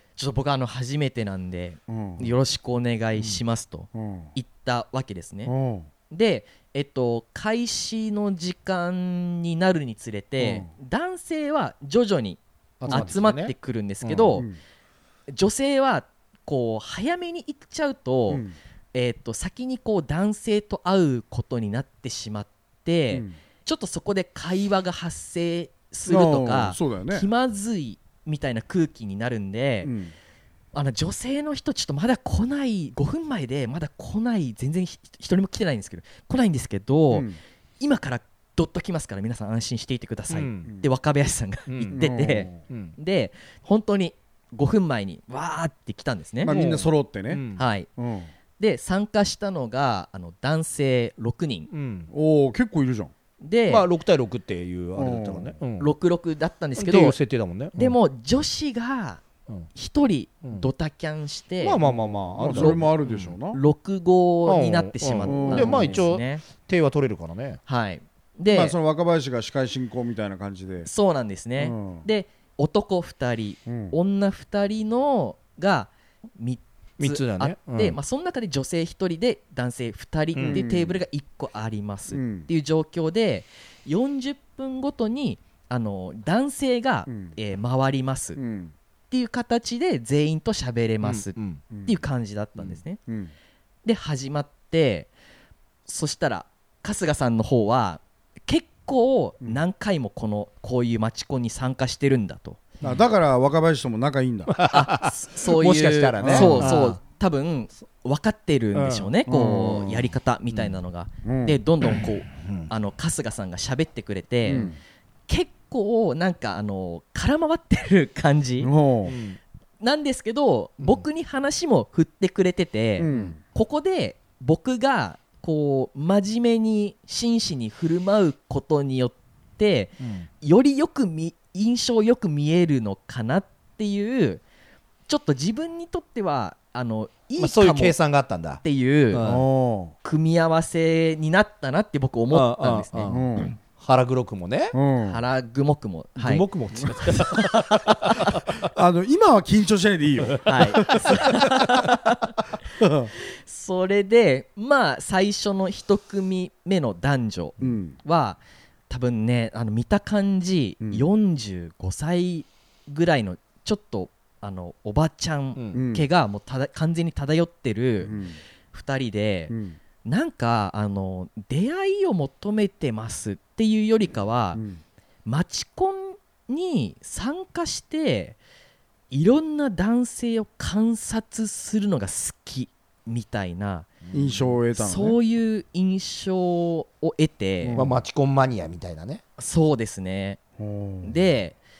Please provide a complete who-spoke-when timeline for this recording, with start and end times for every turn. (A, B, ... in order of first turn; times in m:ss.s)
0:00.2-0:05.5 A
0:01.9-0:02.3 B
0:03.9-0:04.3 B
0:05.4-0:05.9 B
0:06.1-0:14.5 A
0:10.4-0:10.7 B
0:12.8-0:14.4 C
0:12.9-0:13.1 B
0:15.3-0:29.9 A
0:18.3-0:18.6 B
0:23.1-0:23.4 B
0:26.0-0:27.3 B
0:29.8-0:30.1 B
0:30.7-0:37.3 A
0:37.1-0:37.4 B
0:37.8-0:46.5 A
0:40.3-0:40.7 C
0:41.7-0:43.0 C
0:41.9-0:42.6 B
0:46.4-0:48.3 B
0:46.4-0:47.6 C
0:47.6-0:47.9 A
0:48.6-0:51.7 A
0:51.7-0:52.1 C
0:52.1-0:53.1 B
0:53.4-0:53.8 A
0:53.7-0:55.9 C
0:55.0-0:55.6 B
0:55.8-0:57.2 A
0:56.8-0:58.0 C
0:57.7-0:59.2 A
0:59.7-1:01.8 A
1:01.6-1:03.4 C
1:01.8-1:03.6 B
1:02.5-1:02.8 A
1:03.5-1:06.4 A
1:04.4-1:07.6 C
1:05.2-1:06.0 B
1:07.7-1:08.8 A
1:08.5-1:10.9 B
1:10.8-1:28.4 A
1:11.6-1:12.1 B
1:13.7-1:14.0 B
1:17.0-1:18.0 C
1:20.3-1:20.6 C
1:20.4-1:21.0 B
1:22.1-1:22.5 B
1:27.1-1:27.4 B
1:28.4-1:28.7 B
1:29.1-1:33.0 A
1:31.0-1:31.6 C
1:31.7-1:32.0 B
1:32.6-1:33.3 B
1:33.8-1:35.1 A
1:35.8-1:42.6 A
1:42.8-1:44.6 B
1:44.5-1:47.0 C
1:44.7-1:54.7 A
1:46.2-1:46.7 B
1:48.7-1:49.1 C
1:49.3-1:50.1 B
1:50.5-1:50.8 C
1:51.2-1:51.6 B
1:52.4-1:52.7 C
1:54.4-1:54.8 B
1:55.3-1:58.7 A
1:58.6-1:59.2 B
1:59.0-1:59.4 C
1:59.8-2:14.4 A
2:00.8-2:01.0 C
2:03.0-2:03.4 B
2:03.1-2:03.3 C
2:10.0-2:10.3 C
2:15.1-2:18.0 A
2:17.4-2:19.5 C
2:18.6-2:19.2 A
2:19.2-2:19.9 B
2:20.0-2:23.2 A
2:22.3-2:24.7 C
2:23.1-2:23.6 B
2:24.7-2:25.2 B
2:25.0-2:26.5 A
2:26.2-2:28.5 C
2:27.3-2:28.1 A
2:28.7-2:31.4 B
2:30.4-2:32.4 A
2:32.8-2:33.1 B
2:33.2-2:48.1 A
2:37.6-2:38.0 B
2:40.8-2:41.1 B
2:45.5-2:45.8 C
2:45.7-2:46.0 B
2:48.0-2:48.4 B
2:48.7-2:49.5 A
2:49.5-2:49.8 B
2:50.0-2:54.6 A
2:54.5-2:54.8 B
2:55.2-2:58.4 A
2:59.1-3:04.0 A
3:04.0-3:04.6 C
3:04.1-3:05.2 B
3:04.7-3:07.8 A
3:07.6-3:08.0 B
3:07.7-3:09.2 C
3:09.4-3:10.4 A
3:10.6-3:11.2 B
3:11.0-3:11.6 A